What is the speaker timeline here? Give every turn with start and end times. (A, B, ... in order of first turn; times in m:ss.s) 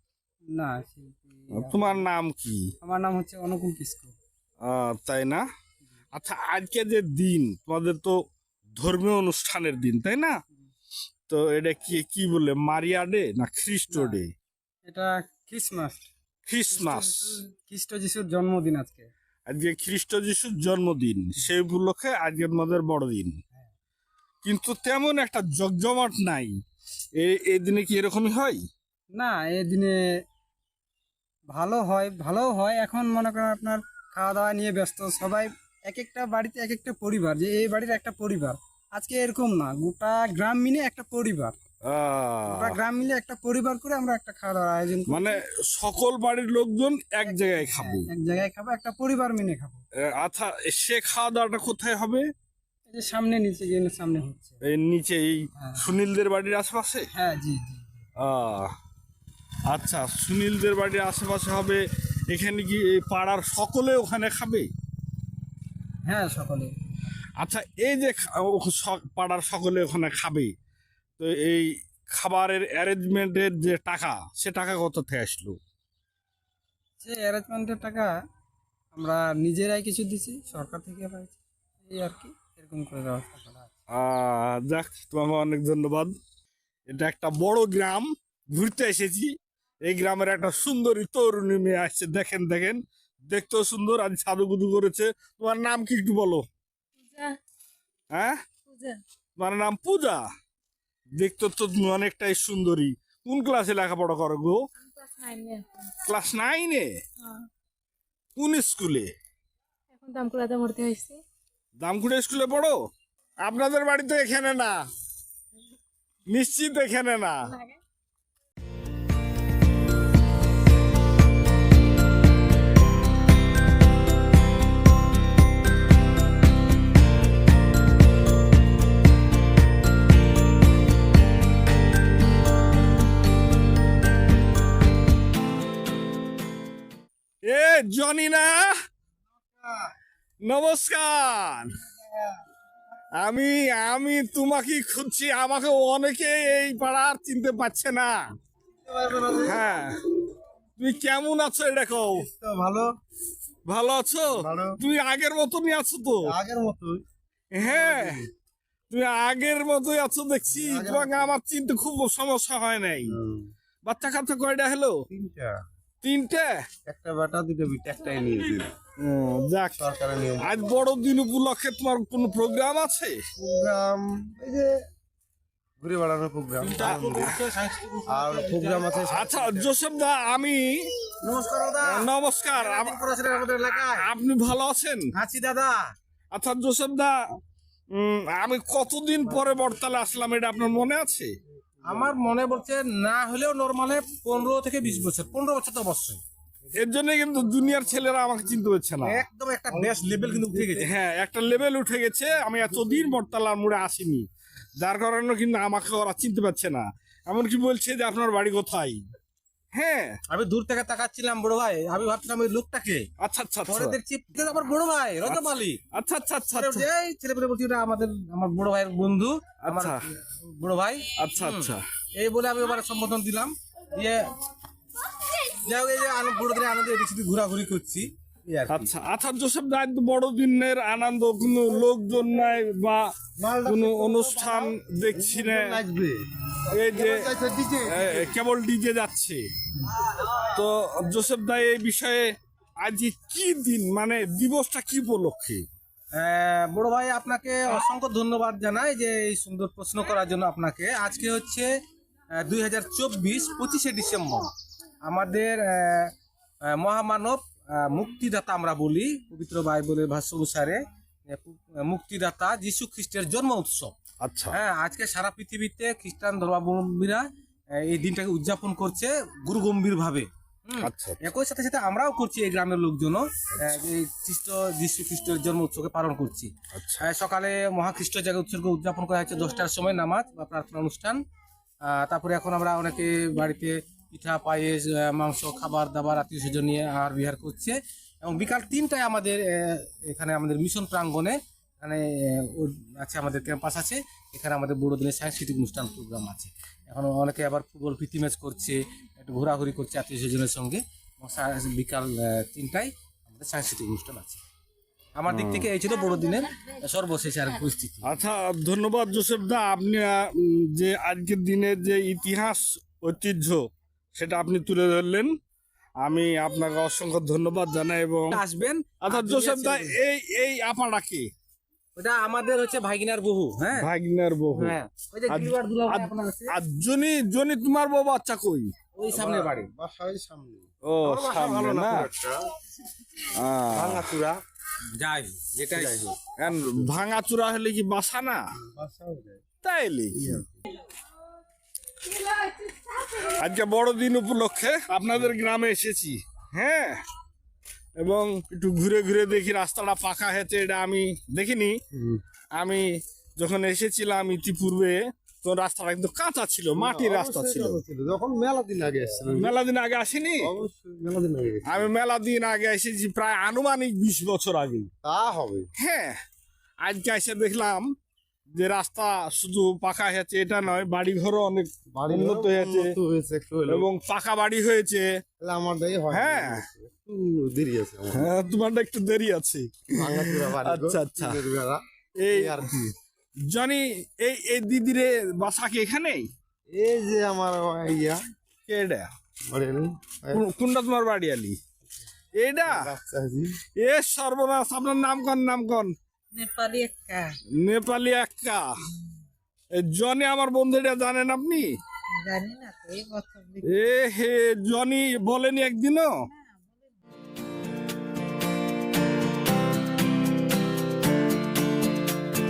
0:00.5-0:02.0 A
0:01.5-0:02.7 B
0:02.8-0:04.1 A
0:04.6-0:05.4 B
0:06.1-0:08.2 B
0:08.8-0:10.4 B
0:11.3-0:14.3 B
0:13.9-0:14.2 A
0:14.8-0:16.1 A
0:16.4-0:17.4 B
0:16.7-0:19.1 A
0:19.5-0:23.4 B
0:24.4-0:26.5 B
0:27.2-0:28.6 B
0:29.1-0:30.0 A
0:31.5-0:41.6 A
0:41.8-0:42.8 B
0:42.4-0:45.4 A
0:45.1-0:48.1 B
0:47.2-0:49.8 A
0:50.0-0:52.2 B
0:52.9-0:54.6 A
0:54.6-0:57.1 B
0:55.6-0:55.8 A
0:57.1-0:57.9 A
0:58.2-0:58.7 B
0:59.7-1:04.7 B
1:06.0-1:06.7 A
1:07.4-1:10.5 B
1:11.2-1:15.6 B
1:17.0-1:18.1 A
1:18.9-1:23.7 A
1:23.9-1:26.1 B
1:26.9-1:29.3 B
1:29.8-1:36.4 B
1:37.0-1:37.4 C
1:38.1-1:38.4 B
1:38.6-1:39.0 C
1:39.4-1:40.2 B
1:41.2-1:44.6 B
1:44.8-1:45.9 C
1:46.0-1:46.9 B
1:48.4-1:49.1 B
1:49.9-1:51.2 C
1:51.8-1:52.8 B
1:53.4-1:54.8 B
1:56.3-1:57.5 B
1:57.5-1:57.8 C
2:17.4-2:18.7 B
2:20.4-2:21.7 B
2:23.2-2:28.2 B
2:28.9-2:29.6 D
2:29.4-2:30.0 B
2:30.8-2:32.3 B
2:32.2-2:32.9 D
2:33.6-2:36.3 B
2:34.3-2:34.8 D
2:36.2-2:37.0 D
2:37.5-2:38.2 B
2:37.6-2:38.2 D
2:38.9-2:43.1 B
2:40.5-2:41.4 D
2:43.1-2:43.5 D
2:43.8-2:45.0 B
2:45.1-2:45.6 D
2:46.0-2:46.6 B
2:46.8-2:48.7 D
2:49.0-2:53.2 B
2:49.8-2:50.6 D
2:53.4-2:54.8 D
2:55.8-2:57.4 D
2:56.6-2:59.0 E
2:56.8-2:57.3 B
2:58.1-2:59.7 D
2:59.0-3:00.9 B
3:01.2-3:04.1 E
3:01.8-3:03.0 B
3:03.9-3:05.1 B
3:05.1-3:05.9 E
3:06.3-3:07.2 B
3:07.9-3:11.3 B
3:11.8-3:16.2 E
3:16.7-3:19.2 B
3:19.0-3:20.9 E
3:20.8-3:24.2 B
3:24.8-3:29.0 B
3:29.7-3:30.2 B
3:30.3-3:33.1 E
3:33.2-3:34.0 B
3:33.7-3:35.8 E
3:35.9-3:36.8 B
3:36.5-3:44.3 E
3:39.6-3:40.0 B
3:41.2-3:41.8 B
3:45.5-3:48.9 E
3:48.7-3:53.1 B
3:53.4-3:56.2 D
3:53.6-3:55.8 B
3:56.7-3:57.3 B
3:56.8-3:58.2 D
3:57.8-3:59.4 B
4:00.4-4:05.6 B
4:06.2-4:11.7 E
4:12.4-4:14.5 E
4:15.0-4:16.1 E
4:16.6-4:23.9 E
4:24.2-4:24.6 B
4:24.5-4:27.2 E
4:27.8-4:41.2 E
4:30.8-4:31.2 B
4:36.7-4:37.0 B
4:41.8-5:04.4 E
5:05.2-5:08.1 E
5:05.3-5:05.7 B
5:08.0-5:13.6 B
5:14.2-5:15.3 B
5:16.0-5:18.4 B
5:18.3-5:20.0 E
5:19.0-5:21.2 B
5:22.0-5:23.9 E
5:23.7-5:24.8 B
5:24.5-5:26.5 E
5:25.3-5:28.7 B
5:29.0-5:29.7 E
5:29.1-5:32.4 D
5:30.8-5:32.1 B
5:33.2-5:34.1 B
5:33.7-5:34.4 D
5:35.0-5:36.1 E
5:35.7-5:36.8 D
5:36.4-5:38.4 B
5:38.6-5:39.4 D
5:39.6-5:40.4 B
5:40.1-5:40.5 D
5:43.2-5:47.0 B
5:48.0-5:51.8 B
5:51.9-5:52.2 D
5:52.6-5:57.8 B
5:56.8-5:59.5 D
5:59.3-6:00.5 B
6:00.4-6:01.9 D
6:01.6-6:04.9 B
6:05.0-6:05.7 D
6:05.8-6:06.2 B
6:06.8-6:07.9 B
6:08.5-6:13.0 B
6:11.9-6:13.9 D
6:13.7-6:15.1 B
6:15.4-6:18.3 D
6:16.1-6:16.6 B
6:18.1-6:21.4 B
6:20.0-6:22.9 D
6:22.2-6:22.8 B
6:23.4-6:26.3 B
6:26.7-6:28.2 D
6:28.6-6:29.1 B
6:29.5-6:30.4 D
6:30.3-6:31.6 B
6:32.4-6:32.9 B
6:32.6-6:33.6 D
6:33.8-6:35.9 B
6:36.3-6:37.3 F
6:37.5-6:38.7 B
6:39.7-6:41.7 B
6:42.2-6:43.6 F
6:43.6-6:46.2 B